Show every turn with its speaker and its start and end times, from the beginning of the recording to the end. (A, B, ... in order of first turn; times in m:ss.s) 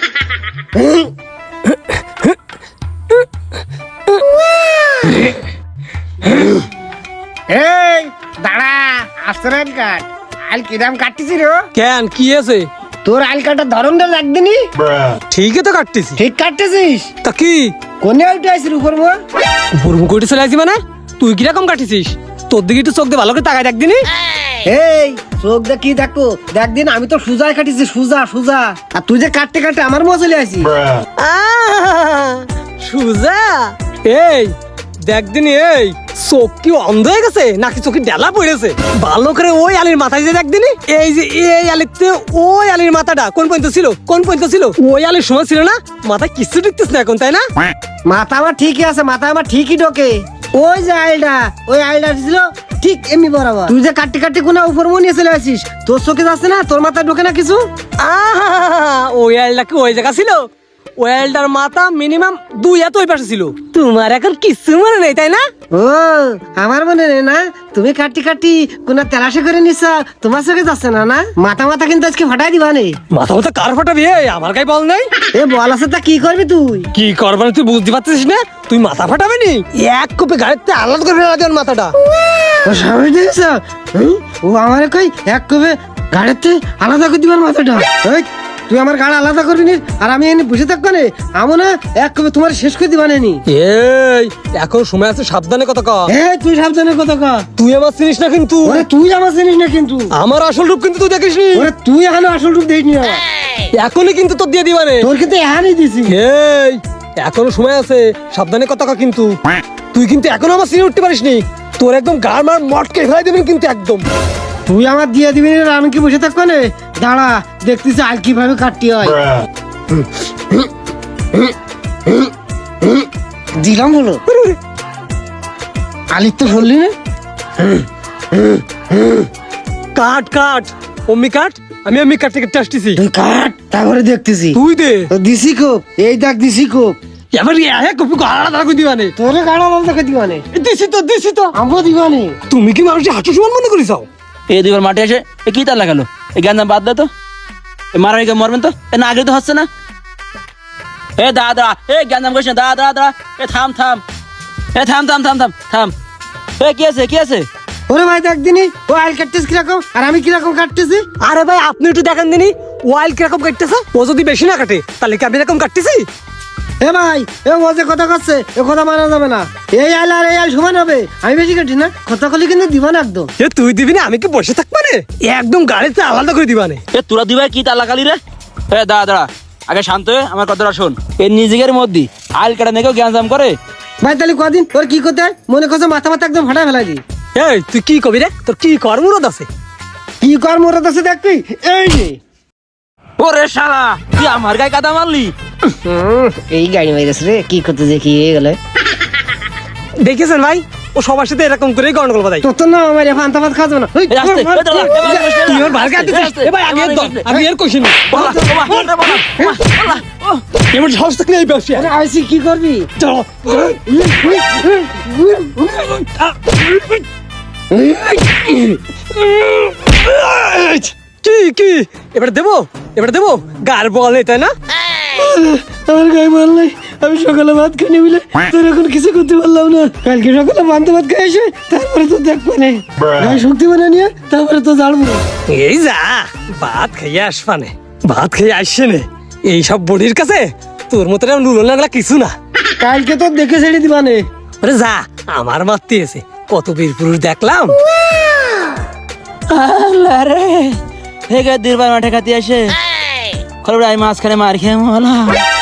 0:00.8-0:01.1 A
0:07.5-0:11.7 A
0:11.7-0:12.7 B
0:13.0-0:14.7 A
0:15.3-0:16.2 B
0:16.2-0:17.1 A
0:17.2-0:17.7 B
0:18.0-0:19.2 A
0:19.8-0:24.1 B
0:24.6-0:30.7 A
0:31.2-0:34.5 B
0:35.0-0:47.4 B
0:48.1-0:57.7 A
0:58.0-1:05.4 B
1:05.7-1:13.0 A
1:13.1-1:15.1 B
1:15.3-1:16.9 A
1:16.9-1:22.5 B
1:22.6-1:33.4 A
1:33.5-1:36.1 B
1:36.1-1:37.5 A
1:37.6-1:38.9 B
1:38.6-1:40.1 A
1:40.1-1:41.7 B
1:41.5-1:43.2 A
1:43.7-1:45.1 B
1:45.0-1:46.2 A
1:46.1-1:49.4 B
1:49.9-1:54.1 B
1:54.7-1:59.2 A
2:03.6-2:04.2 A
2:04.3-2:04.6 B
2:06.1-2:06.9 A
2:08.4-2:09.3 A
2:09.9-2:13.0 B
2:13.0-2:17.0 A
2:14.5-2:15.1 B
2:17.3-2:19.1 B
2:19.2-2:20.5 A
2:20.5-2:21.5 B
2:21.5-2:22.4 A
2:22.5-2:24.1 B
2:24.5-2:27.1 C
2:27.9-2:29.7 C
2:31.2-2:34.0 C
2:34.8-2:35.9 C
2:36.6-2:37.5 C
2:37.9-2:41.0 A
2:41.2-2:46.1 B
2:46.8-2:53.3 A
2:53.4-2:56.8 B
2:56.9-2:58.2 C
2:58.7-3:03.6 C
3:04.0-3:07.0 A
3:07.4-3:09.5 B
3:10.2-3:12.2 A
3:13.2-3:15.3 C
3:15.8-3:18.6 A
3:20.0-3:22.4 B
3:22.4-3:25.6 A
3:24.1-3:27.3 C
3:24.8-3:28.2 B
3:28.1-3:30.4 C
3:28.1-3:28.6 A
3:30.6-3:31.9 B
3:31.8-3:32.9 A
3:33.0-3:34.4 B
3:33.7-3:36.0 A
3:35.9-3:37.0 B
3:37.7-3:38.8 A
3:39.2-3:44.5 B
3:45.1-3:55.2 A
3:55.5-4:02.3 B
4:02.8-4:04.2 A
4:04.6-4:07.8 B
4:09.5-4:10.8 C
4:11.3-4:12.8 C
4:13.6-4:15.4 C